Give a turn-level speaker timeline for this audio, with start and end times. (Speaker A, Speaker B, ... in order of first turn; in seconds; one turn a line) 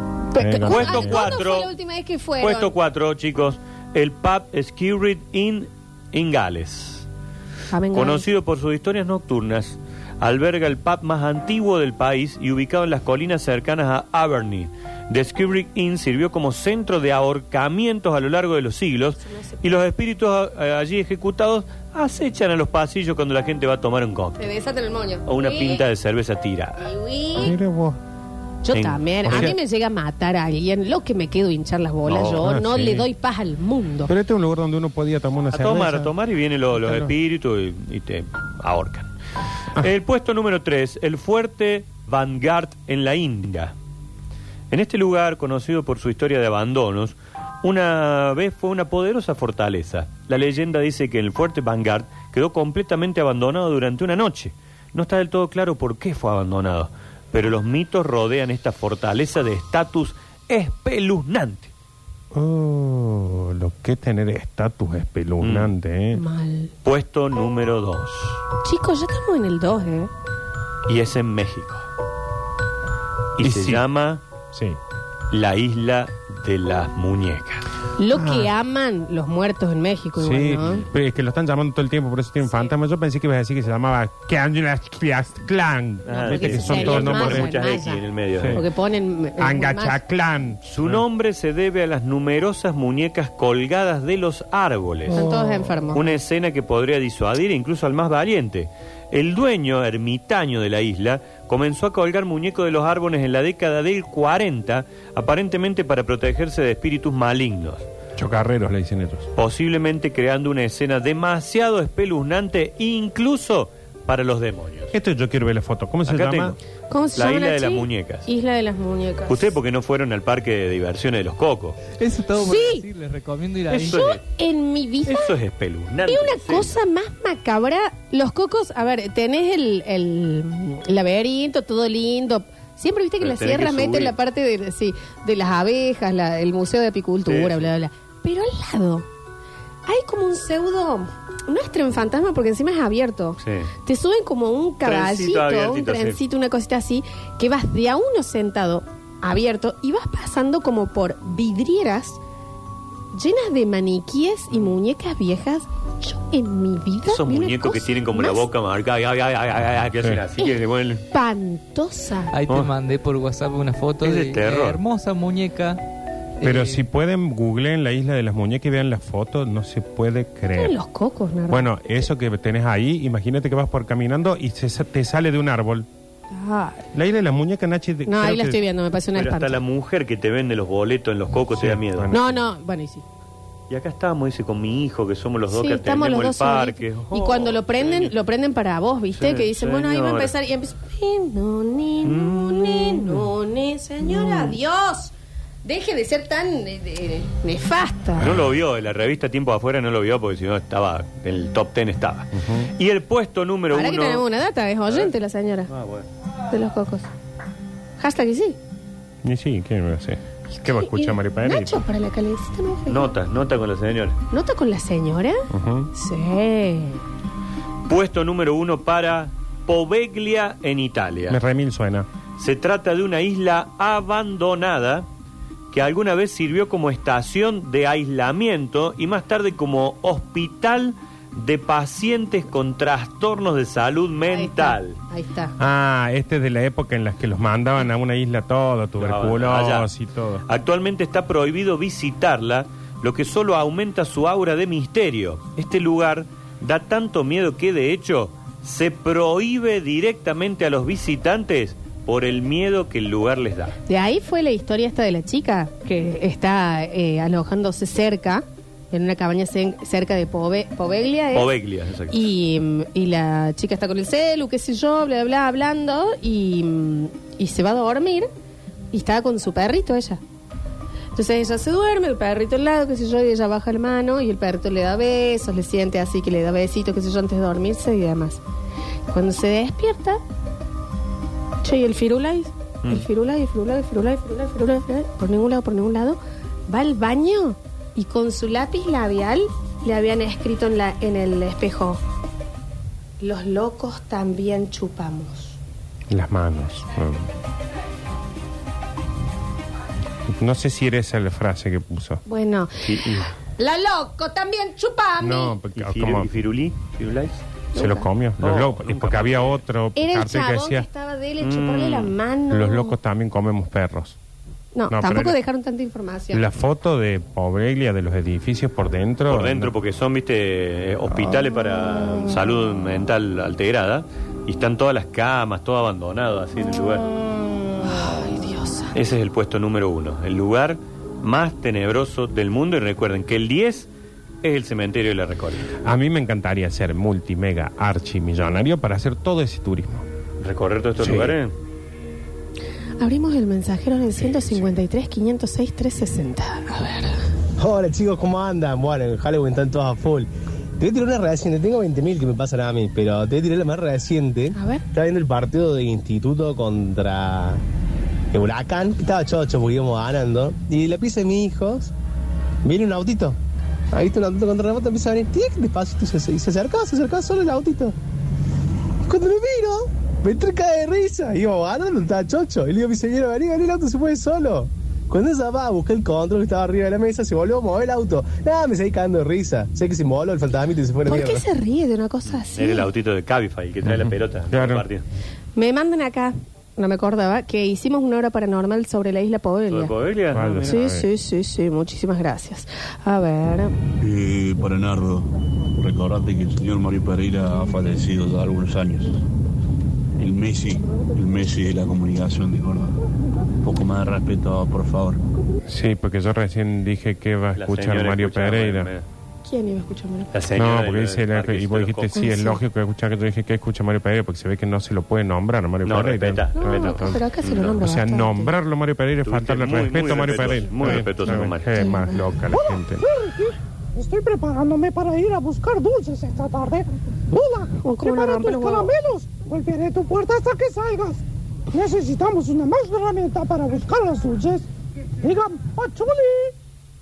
Speaker A: 0.3-2.7
Speaker B: 0.3-1.3
Speaker C: 0.6-1.7
Speaker C: 2.4-7.0
Speaker A: 7.7-8.2
Speaker C: 7.9-24.5
Speaker A: 19.2-19.6
Speaker A: 24.4-25.8
Speaker C: 25.2-26.9
Speaker A: 26.8-27.6
Speaker B: 27.4-28.0
Speaker A: 28.6-34.1
Speaker C: 28.7-29.5
Speaker B: 29.2-29.5
Speaker B: 32.1-33.1
Speaker B: 34.1-36.1
Speaker C: 35.5-39.1
Speaker B: 36.7-37.1
Speaker C: 39.8-43.7
Speaker C: 44.7-61.7
Speaker B: 62.3-66.2
Speaker C: 65.4-65.7
Speaker A: 66.1-66.7
Speaker C: 66.8-68.4
Speaker A: 68.6-70.1
Speaker C: 70.9-71.8
Speaker C: 73.4-74.2
Speaker B: 73.4-73.8
Speaker B: 74.5-74.8
Speaker C: 75.3-77.6
Speaker A: 78.0-80.8
Speaker B: 78.1-78.5
Speaker B: 80.2-87.6
Speaker C: 86.0-88.6
Speaker A: 86.1-90.0
Speaker B: 88.4-88.6
Speaker B: 89.4-91.0
Speaker C: 90.6-95.2
Speaker B: 95.1-95.8
Speaker A: 95.1-96.0
Speaker C: 95.9-107.8
Speaker B: 108.2-109.3
Speaker C: 109.3-114.9
Speaker B: 114.9-116.6
Speaker C: 116.1-116.6
Speaker A: 116.9-119.5
Speaker C: 117.2-118.3
Speaker C: 119.3-121.8
Speaker D: 121.9-124.1
Speaker A: 122.4-122.8
Speaker C: 123.7-124.2
Speaker A: 123.9-125.3
Speaker C: 125.1-126.8
Speaker A: 126.0-139.1
Speaker C: 133.2-134.1
Speaker C: 137.2-137.7
Speaker A: 139.8-152.2
Speaker C: 143.4-143.7
Speaker C: 144.8-146.2
Speaker A: 153.1-158.5
Speaker C: 157.1-161.0
Speaker A: 161.1-162.3
Speaker D: 162.3-165.8
Speaker C: 164.0-164.8
Speaker B: 166.4-170.8
Speaker D: 166.4-166.8
Speaker A: 170.5-172.1
Speaker B: 171.5-175.9
Speaker A: 176.3-176.8
Speaker B: 176.9-178.6
Speaker A: 178.1-179.6
Speaker C: 179.1-182.1
Speaker B: 181.5-182.4
Speaker A: 182.1-183.0
Speaker C: 183.7-188.1
Speaker A: 185.5-195.1
Speaker C: 189.2-190.3
Speaker C: 192.0-193.2
Speaker A: 195.6-198.3
Speaker C: 198.2-204.2
Speaker B: 202.3-202.7
Speaker A: 203.7-205.7
Speaker C: 205.7-206.1
Speaker A: 206.5-207.1
Speaker A: 208.0-208.6
Speaker B: 209.2-211.8
Speaker A: 210.6-213.1
Speaker C: 212.9-214.2
Speaker A: 214.3-215.4
Speaker B: 215.5-215.9
Speaker A: 215.9-217.0
Speaker C: 217.9-221.4
Speaker B: 221.3-222.1
Speaker C: 222.4-225.1
Speaker C: 225.7-235.0
Speaker A: 234.3-235.6
Speaker B: 235.6-240.4
Speaker C: 239.0-239.9
Speaker C: 240.5-253.8
Speaker A: 253.9-261.5
Speaker C: 261.3-262.2
Speaker A: 262.1-268.3
Speaker A: 268.9-270.2
Speaker A: 271.1-278.4
Speaker A: 279.1-280.2
Speaker A: 281.6-292.0
Speaker A: 293.2-295.6
Speaker B: 296.1-297.3
Speaker B: 300.3-302.2
Speaker A: 302.2-305.6
Speaker C: 302.8-303.2
Speaker B: 305.2-306.3
Speaker C: 305.8-307.4
Speaker A: 307.7-308.1
Speaker B: 307.8-310.9
Speaker C: 308.4-309.6
Speaker A: 309.9-312.9
Speaker C: 311.4-312.1
Speaker B: 312.5-314.2
Speaker A: 314.7-316.4
Speaker B: 314.9-315.4
Speaker B: 316.3-319.7
Speaker C: 319.3-327.1
Speaker A: 327.5-328.9
Speaker C: 328.9-333.9
Speaker C: 334.4-335.7
Speaker B: 335.8-340.1
Speaker C: 340.4-341.5
Speaker B: 341.0-341.4
Speaker A: 343.0-347.2
Speaker C: 344.2-344.7
Speaker E: 347.6-357.6
Speaker A: 354.5-354.8
Speaker E: 358.3-361.9
Speaker E: 362.6-363.4
Speaker E: 363.9-367.9
Speaker E: 369.1-381.4
Speaker A: 381.1-382.9
Speaker C: 382.5-385.0
Speaker B: 383.8-384.8
Speaker A: 385.6-389.9
Speaker C: 389.7-390.9
Speaker B: 390.3-391.1
Speaker A: 390.7-393.7
Speaker F: 394.0-399.2
Speaker F: 400.2-403.0
Speaker F: 403.6-405.2
Speaker B: 405.6-408.9
Speaker C: 407.6-409.0
Speaker A: 409.4-410.3
Speaker C: 410.3-412.1
Speaker B: 410.5-423.0
Speaker A: 412.1-412.6
Speaker C: 415.8-417.8
Speaker A: 416.6-418.5
Speaker C: 419.2-421.8
Speaker A: 421.8-422.2
Speaker G: 422.5-434.7
Speaker A: 427.8-428.9
Speaker G: 435.2-436.5